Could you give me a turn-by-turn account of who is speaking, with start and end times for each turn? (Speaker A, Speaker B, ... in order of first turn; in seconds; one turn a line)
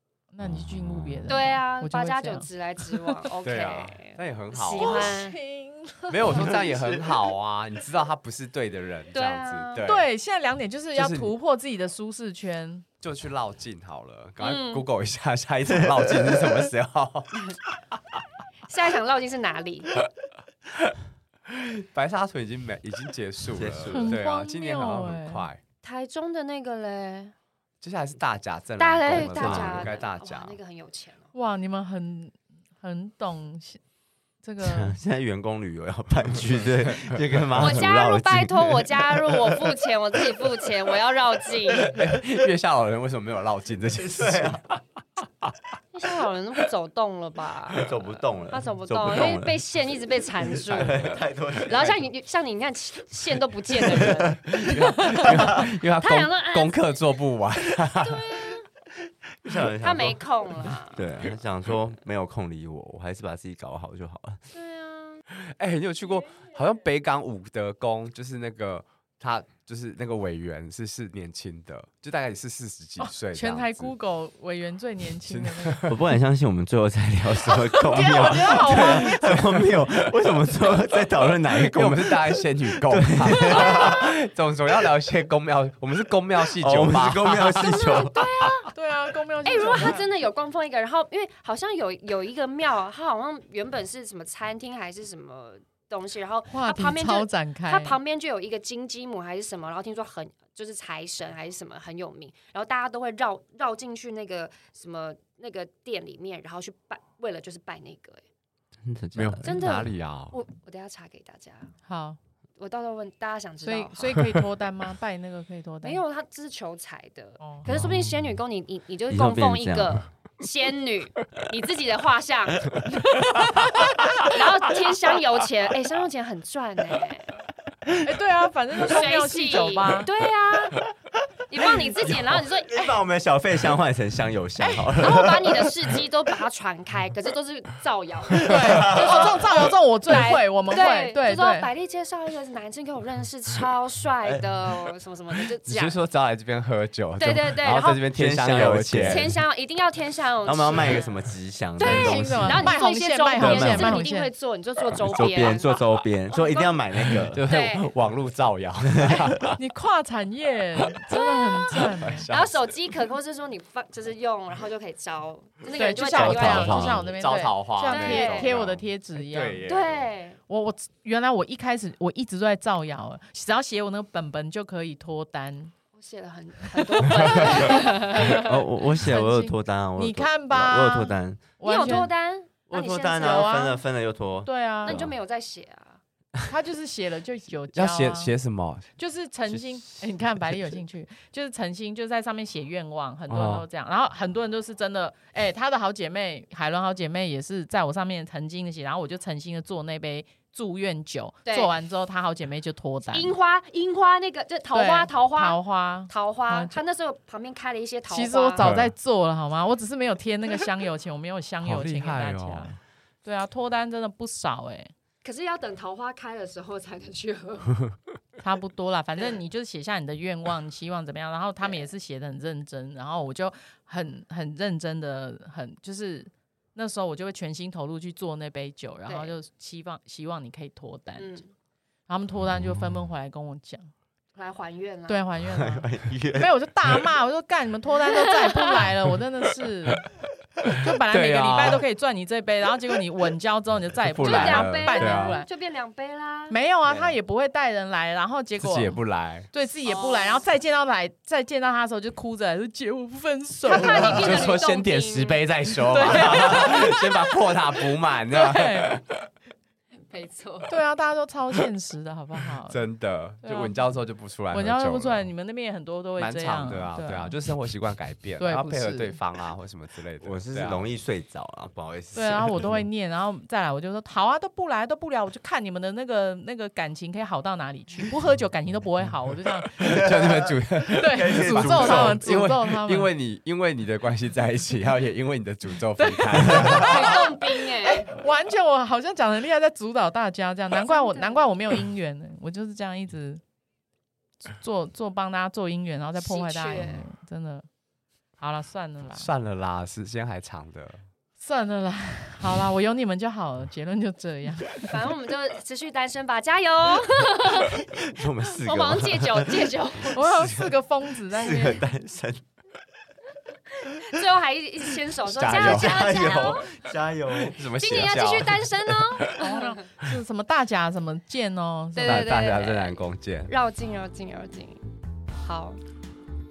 Speaker A: 0.3-3.1
Speaker B: 0.5-1.3
Speaker C: 1.3-5.4
Speaker D: 3.4-5.2
Speaker A: 4.8-6.5
Speaker D: 6.1-10.1
Speaker B: 6.3-7.1
Speaker C: 9.1-9.9
Speaker A: 9.8-12.8
Speaker D: 10.9-11.3
Speaker D: 13.0-17.4
Speaker C: 14.4-14.8
Speaker D: 17.9-18.2
Speaker C: 18.7-19.9
Speaker D: 21.5-25.6
Speaker B: 23.5-24.2
Speaker A: 23.9-25.4
Speaker C: 25.8-27.3
Speaker D: 27.8-30.6
Speaker C: 28.8-31.3
Speaker B: 29.1-29.9
Speaker A: 31.3-33.8
Speaker A: 34.4-35.0
Speaker B: 34.6-39.6
Speaker D: 37.0-37.8
Speaker C: 37.6-41.9
Speaker D: 41.9-45.5
Speaker B: 44.0-44.6
Speaker C: 45.9-57.0
Speaker B: 47.7-49.8
Speaker B: 50.4-51.9
Speaker D: 50.7-51.0
Speaker B: 53.9-55.8
Speaker D: 54.6-58.7
Speaker C: 58.0-58.7
Speaker B: 59.4-64.4
Speaker C: 59.8-61.0
Speaker C: 64.5-65.2
Speaker D: 65.5-73.9
Speaker A: 73.0-75.9
Speaker D: 75.3-76.0
Speaker B: 75.9-84.1
Speaker A: 77.5-79.3
Speaker D: 78.1-79.9
Speaker D: 81.5-87.7
Speaker B: 86.6-88.6
Speaker C: 87.5-88.7
Speaker A: 88.7-90.1
Speaker C: 89.5-108.2
Speaker A: 96.5-98.0
Speaker B: 108.8-109.6
Speaker D: 109.2-110.4
Speaker C: 109.4-111.7
Speaker A: 111.9-112.2
Speaker C: 112.6-114.2
Speaker A: 113.6-116.0
Speaker C: 115.8-122.7
Speaker A: 117.4-117.7
Speaker B: 117.7-118.4
Speaker B: 119.1-120.1
Speaker A: 123.2-123.5
Speaker C: 124.1-127.4
Speaker A: 128.0-130.1
Speaker C: 128.8-130.9
Speaker C: 131.5-133.0
Speaker B: 132.0-136.0
Speaker C: 135.0-146.0
Speaker B: 138.4-139.3
Speaker A: 138.5-141.7
Speaker D: 145.7-149.3
Speaker C: 147.2-148.0
Speaker B: 148.1-149.4
Speaker C: 149.0-151.2
Speaker B: 150.4-152.8
Speaker C: 151.8-156.8
Speaker A: 151.8-154.3
Speaker B: 153.4-154.0
Speaker B: 154.9-157.4
Speaker D: 157.3-159.6
Speaker C: 157.5-157.9
Speaker A: 159.4-162.3
Speaker D: 161.8-162.8
Speaker C: 162.3-167.2
Speaker A: 165.8-169.7
Speaker B: 166.1-167.0
Speaker D: 167.0-170.1
Speaker C: 167.9-168.5
Speaker C: 169.7-170.4
Speaker A: 170.5-175.7
Speaker C: 175.9-178.7
Speaker A: 177.0-178.5
Speaker D: 177.2-177.7
Speaker B: 178.2-181.5
Speaker A: 179.0-182.1
Speaker C: 181.6-183.8
Speaker B: 182.7-185.2
Speaker A: 183.2-183.8
Speaker A: 184.4-185.0
Speaker C: 184.8-186.0
Speaker A: 186.5-188.3
Speaker D: 187.7-188.9
Speaker A: 189.0-203.3
Speaker B: 189.5-190.0
Speaker D: 193.3-193.7
Speaker C: 201.5-201.7
Speaker C: 203.1-208.8
Speaker A: 204.7-206.8
Speaker A: 208.1-214.9
Speaker D: 208.6-208.9
Speaker D: 211.6-212.8
Speaker C: 215.2-217.7
Speaker A: 218.4-231.4
Speaker C: 229.1-229.3
Speaker C: 231.2-231.5
Speaker A: 232.1-233.9
Speaker C: 234.3-235.2
Speaker A: 235.1-240.0
Speaker B: 235.4-236.5
Speaker C: 238.5-238.8
Speaker A: 240.7-245.5
Speaker D: 241.1-241.8
Speaker D: 244.1-245.4
Speaker C: 244.2-246.6
Speaker A: 246.5-249.0
Speaker B: 246.9-247.2
Speaker D: 248.6-249.5
Speaker A: 249.5-254.5
Speaker C: 249.9-250.4
Speaker C: 253.7-255.4
Speaker D: 253.9-259.2
Speaker A: 255.9-257.2
Speaker A: 258.3-258.9
Speaker C: 260.1-260.7
Speaker A: 260.7-262.8
Speaker D: 262.7-265.3
Speaker A: 263.4-263.8
Speaker A: 264.5-267.4
Speaker D: 266.2-270.9
Speaker A: 268.4-269.2
Speaker B: 270.2-272.8
Speaker A: 272.1-280.1
Speaker D: 279.8-287.2
Speaker B: 279.8-280.3
Speaker A: 280.9-283.1
Speaker B: 281.0-282.5
Speaker A: 286.0-293.4
Speaker C: 286.5-288.1
Speaker C: 290.8-291.5
Speaker A: 294.5-297.7
Speaker C: 296.2-297.1
Speaker A: 298.4-299.3
Speaker D: 299.1-301.0
Speaker A: 301.4-304.9
Speaker C: 304.8-307.9
Speaker B: 308.0-310.8
Speaker C: 308.5-310.2
Speaker A: 310.1-311.9
Speaker B: 311.3-312.4
Speaker C: 313.9-316.8
Speaker D: 315.4-316.1
Speaker B: 315.4-317.6
Speaker D: 317.3-319.2
Speaker C: 317.8-319.8
Speaker A: 319.4-322.3
Speaker C: 321.9-324.8
Speaker D: 322.0-323.5
Speaker C: 325.4-325.8